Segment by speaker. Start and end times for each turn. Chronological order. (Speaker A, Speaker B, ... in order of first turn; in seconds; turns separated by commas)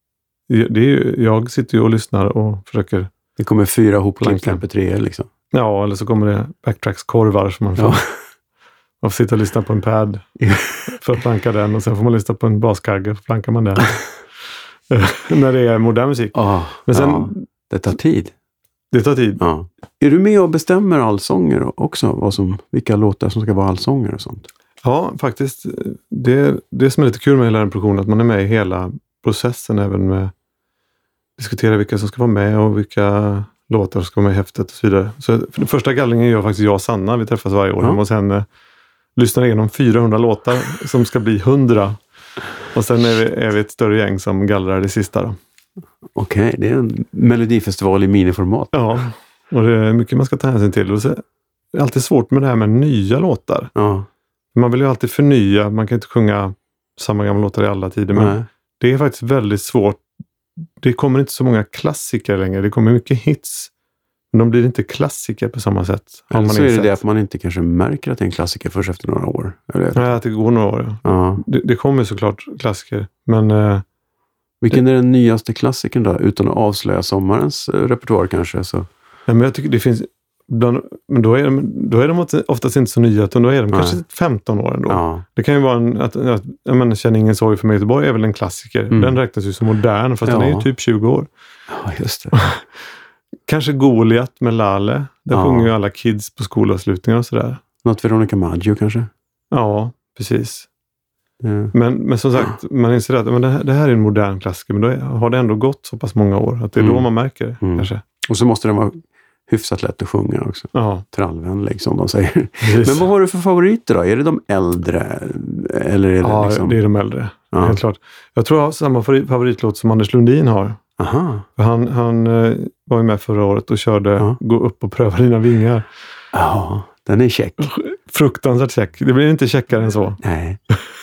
Speaker A: 0.5-3.1, Speaker B: 3.4-5.3, Speaker A: 4.2-4.6, Speaker A: 5.5-8.0, Speaker B: 7.8-8.1, Speaker A: 9.0-10.3, Speaker B: 10.4-10.7, Speaker A: 10.9-14.0, Speaker A: 14.9-17.4, Speaker B: 16.3-18.3, Speaker A: 18.9-19.4, Speaker B: 19.4-24.5, Speaker A: 24.8-30.3, Speaker A: 31.4-38.5, Speaker A: 39.2-42.0, Speaker A: 42.7-45.4, Speaker B: 46.1-48.7, Speaker A: 48.7-51.2, Speaker A: 51.7-53.7, Speaker B: 53.8-54.1, Speaker A: 54.5-60.0, Speaker B: 58.1-58.5, Speaker A: 60.8-63.7, Speaker A: 64.3-67.0, Speaker B: 66.3-70.2, Speaker A: 69.9-73.8, Speaker B: 71.0-71.4, Speaker B: 74.6-78.9, Speaker A: 79.3-91.3, Speaker B: 83.7-84.0, Speaker B: 84.9-85.2, Speaker B: 88.9-89.2, Speaker B: 90.2-90.7, Speaker B: 91.7-92.3, Speaker A: 92.3-92.6, Speaker A: 93.5-97.6, Speaker B: 95.3-95.7, Speaker B: 97.8-99.1, Speaker A: 99.5-100.7, Speaker B: 101.4-101.7, Speaker A: 101.7-108.0, Speaker B: 106.8-107.1, Speaker B: 107.6-116.8, Speaker A: 110.7-111.0, Speaker A: 112.6-113.0, Speaker A: 116.2-120.8, Speaker B: 117.5-117.8, Speaker B: 121.0-121.5, Speaker A: 121.6-125.8, Speaker B: 126.3-127.7, Speaker A: 127.6-130.2, Speaker B: 130.2-130.6